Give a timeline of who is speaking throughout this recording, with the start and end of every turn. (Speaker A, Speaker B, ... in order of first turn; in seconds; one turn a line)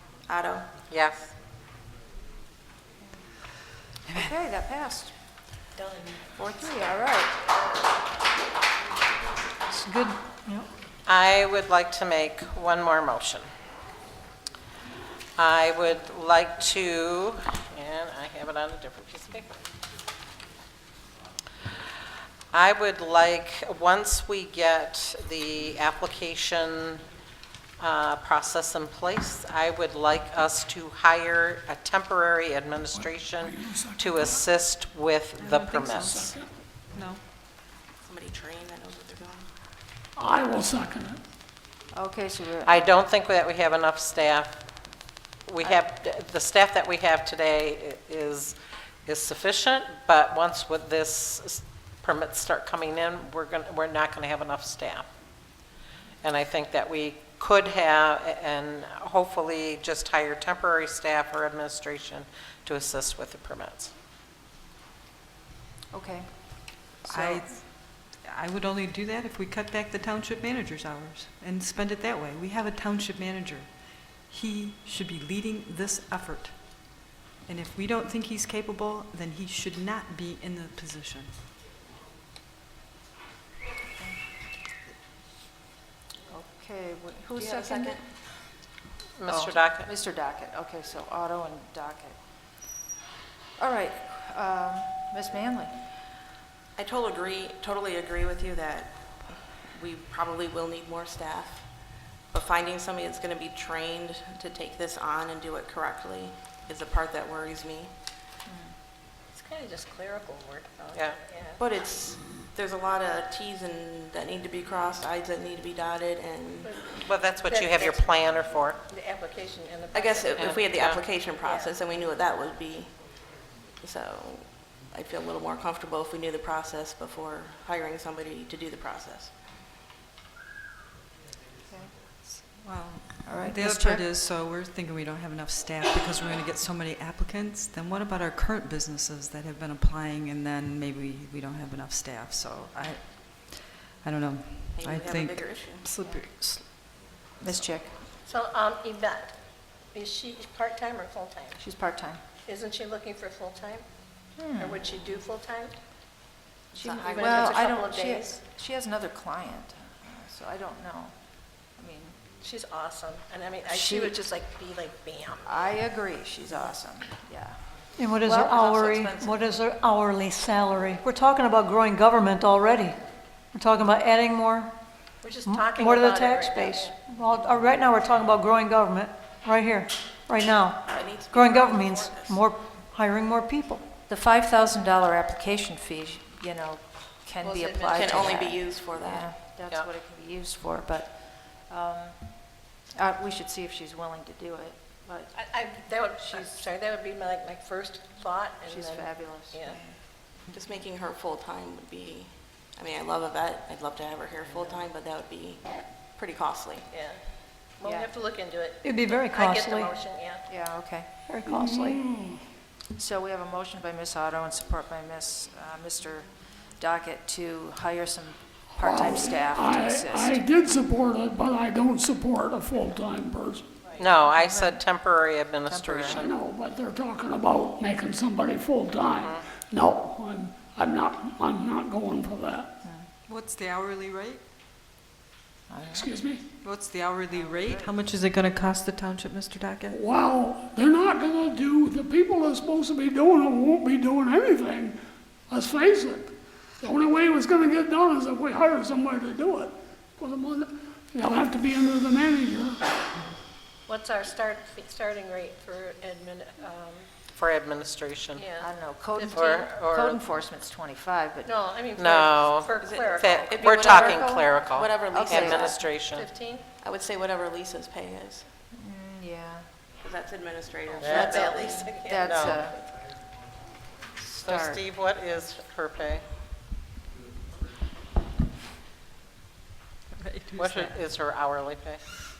Speaker A: 0.2-0.7
Speaker B: 0.9-1.3
Speaker C: 4.1-5.1
Speaker D: 5.8-6.2
Speaker C: 6.4-7.4
Speaker E: 9.7-10.7
Speaker B: 11.1-13.5
Speaker B: 15.4-19.6
Speaker B: 22.5-27.0
Speaker B: 27.8-36.3
Speaker F: 32.9-34.5
Speaker G: 35.3-36.4
Speaker F: 36.1-36.5
Speaker G: 36.9-37.2
Speaker A: 38.0-39.5
Speaker F: 40.2-41.2
Speaker C: 41.9-42.9
Speaker B: 42.6-44.6
Speaker B: 45.4-55.1
Speaker B: 56.2-63.9
Speaker C: 65.9-67.5
Speaker G: 67.1-73.7
Speaker G: 74.3-76.9
Speaker G: 77.5-81.3
Speaker C: 86.3-88.0
Speaker A: 87.3-88.0
Speaker B: 89.2-89.9
Speaker C: 89.3-92.2
Speaker C: 93.6-95.8
Speaker A: 96.8-101.7
Speaker A: 102.3-107.9
Speaker C: 108.5-108.8
Speaker D: 109.3-111.6
Speaker A: 111.6-117.0
Speaker D: 116.6-118.1
Speaker B: 117.0-118.8
Speaker D: 118.9-120.7
Speaker A: 119.9-123.0
Speaker B: 120.4-121.0
Speaker D: 121.3-121.8
Speaker A: 123.8-129.3
Speaker C: 131.7-131.9
Speaker G: 132.3-146.8
Speaker C: 133.2-134.1
Speaker A: 144.8-145.8
Speaker C: 147.4-148.0
Speaker D: 148.2-149.3
Speaker D: 149.9-151.6
Speaker C: 151.6-152.2
Speaker D: 152.4-154.0
Speaker C: 154.3-154.8
Speaker D: 154.5-155.8
Speaker C: 156.7-162.2
Speaker A: 156.8-157.7
Speaker D: 157.0-158.4
Speaker D: 162.4-165.4
Speaker C: 163.7-164.2
Speaker C: 165.4-167.6
Speaker E: 167.9-173.0
Speaker C: 168.2-168.6
Speaker A: 168.3-169.4
Speaker E: 173.5-174.7
Speaker D: 175.2-177.0
Speaker E: 175.4-183.8
Speaker A: 180.8-182.4
Speaker C: 184.1-195.4
Speaker D: 187.4-188.4
Speaker A: 187.9-189.3
Speaker D: 195.3-199.8
Speaker C: 196.2-196.6
Speaker C: 198.7-199.9
Speaker A: 200.5-206.9
Speaker D: 206.9-210.5
Speaker C: 207.8-208.1
Speaker E: 208.8-209.9
Speaker C: 210.5-211.1
Speaker E: 211.3-212.0
Speaker F: 211.4-212.5
Speaker C: 213.0-220.4
Speaker F: 218.7-223.7
Speaker B: 224.0-226.3
Speaker C: 224.2-224.8
Speaker C: 225.7-226.2
Speaker F: 226.2-232.8
Speaker G: 233.3-234.4
Speaker C: 235.7-236.1
Speaker F: 235.9-236.4
Speaker G: 236.6-240.0
Speaker F: 239.9-245.0
Speaker F: 245.5-252.8
Speaker D: 253.9-257.1
Speaker B: 257.3-258.4
Speaker D: 258.4-259.7
Speaker C: 258.6-261.5
Speaker B: 259.3-260.2
Speaker D: 261.4-263.9
Speaker B: 261.9-266.3
Speaker A: 262.8-265.8
Speaker C: 263.7-265.9
Speaker D: 265.9-266.6
Speaker A: 266.8-268.5
Speaker C: 268.7-269.7
Speaker A: 270.0-271.9
Speaker D: 270.9-272.2
Speaker B: 271.0-271.4
Speaker C: 272.0-272.8
Speaker B: 272.1-272.6
Speaker C: 274.2-274.8
Speaker B: 274.4-276.2
Speaker G: 280.1-281.0
Speaker B: 280.6-282.1